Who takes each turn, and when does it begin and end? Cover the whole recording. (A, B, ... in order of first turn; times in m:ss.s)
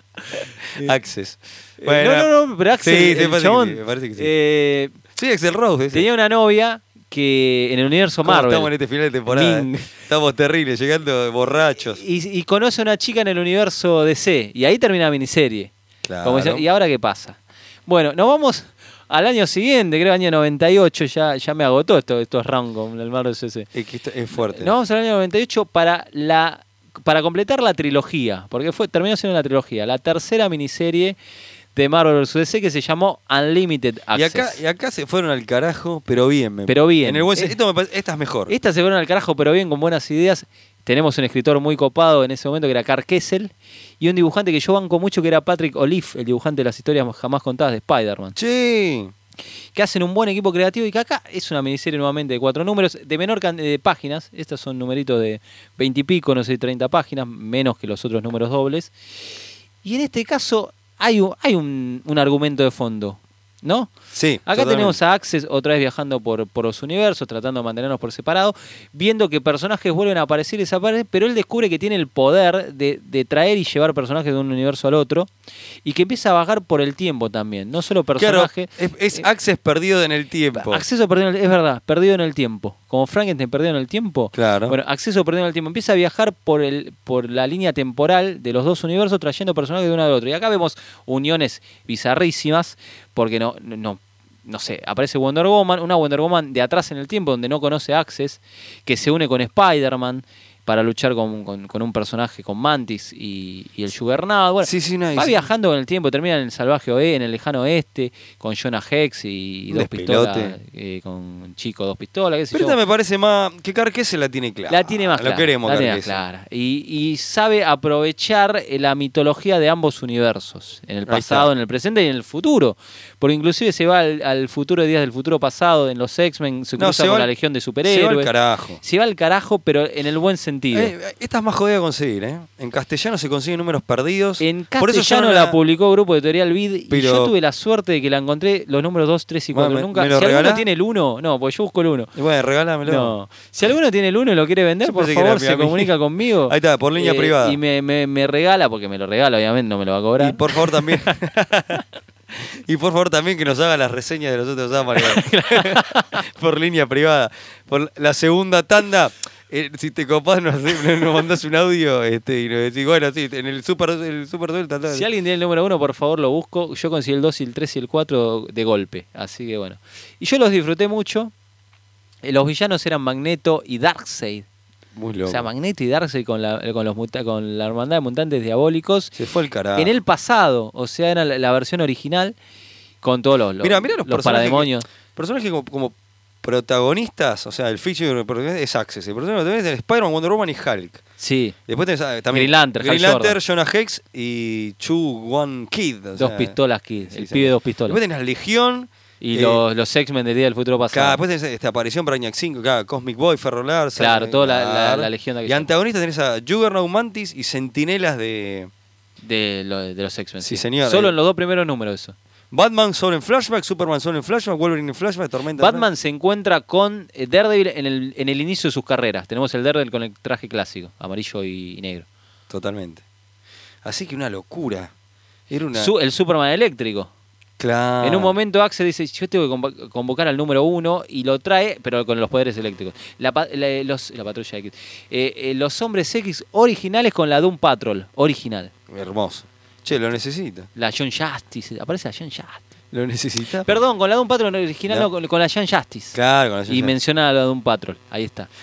0:00.3-0:01.0 A
0:00.8-0:04.3 B
0:01.8-0:05.0 A
0:05.2-0:06.1 B
0:05.9-0:08.7 A
0:08.2-0:12.0 B
0:09.3-0:10.0 A
0:11.9-0:15.7 A
0:16.0-0:16.6 B
0:16.2-0:23.7 A
0:23.7-0:24.7 B
0:24.3-0:31.2 A
0:31.8-0:34.6 A
0:34.1-0:38.5 B
0:36.7-0:37.6 A
0:38.5-0:48.4 A
0:48.4-0:49.1 B
0:49.8-0:58.9 A
0:59.8-1:03.9 A
1:04.1-1:05.0 B
1:04.5-1:15.3 A
1:15.8-1:19.2 A
1:18.2-1:20.8 B
1:20.5-1:52.8 A
1:24.3-1:24.8 B
1:44.6-1:45.4 B
1:49.7-1:50.6 B
1:52.5-1:56.2 B
1:54.7-2:08.3 A
2:01.1-2:01.5 B
2:06.8-2:07.3 B
2:07.8-2:08.8 B
2:08.8-2:10.9 A
2:10.7-2:15.6 B
2:14.4-2:22.1 A
2:16.9-2:17.3 B
2:19.5-2:20.7 B
2:22.2-2:23.1 B
2:22.8-2:31.1 A
2:24.8-2:25.9 B
2:26.5-2:27.6 B
2:30.2-2:45.0 B
2:35.0-2:36.2 A
2:44.9-2:51.3 A
2:52.2-2:54.4 A
2:55.0-2:55.5 B
2:55.3-2:59.1 A
2:59.2-2:59.9 B
2:59.8-3:02.4 A
3:03.0-3:04.9 A
3:03.6-3:11.0 B
3:11.2-3:11.6 A
3:11.7-3:16.6 B
3:12.3-3:13.4 A
3:16.2-3:18.0 A
3:17.1-3:19.6 B
3:19.2-3:21.2 A
3:20.9-3:28.7 B
3:24.0-3:25.7 A
3:29.2-3:32.2 A
3:30.4-3:31.1 B
3:32.5-3:35.8 B
3:35.6-3:42.1 A
3:42.5-3:43.0 B
3:43.8-3:44.9 B
3:45.5-3:45.9 B
3:45.7-3:47.1 A
3:47.6-3:48.4 B
3:48.0-3:58.7 A
3:58.9-4:00.7 B
4:00.8-4:02.6 A
4:02.9-4:03.8 B
4:03.7-4:06.2 A
4:06.1-4:07.0 B
4:06.7-4:08.5 A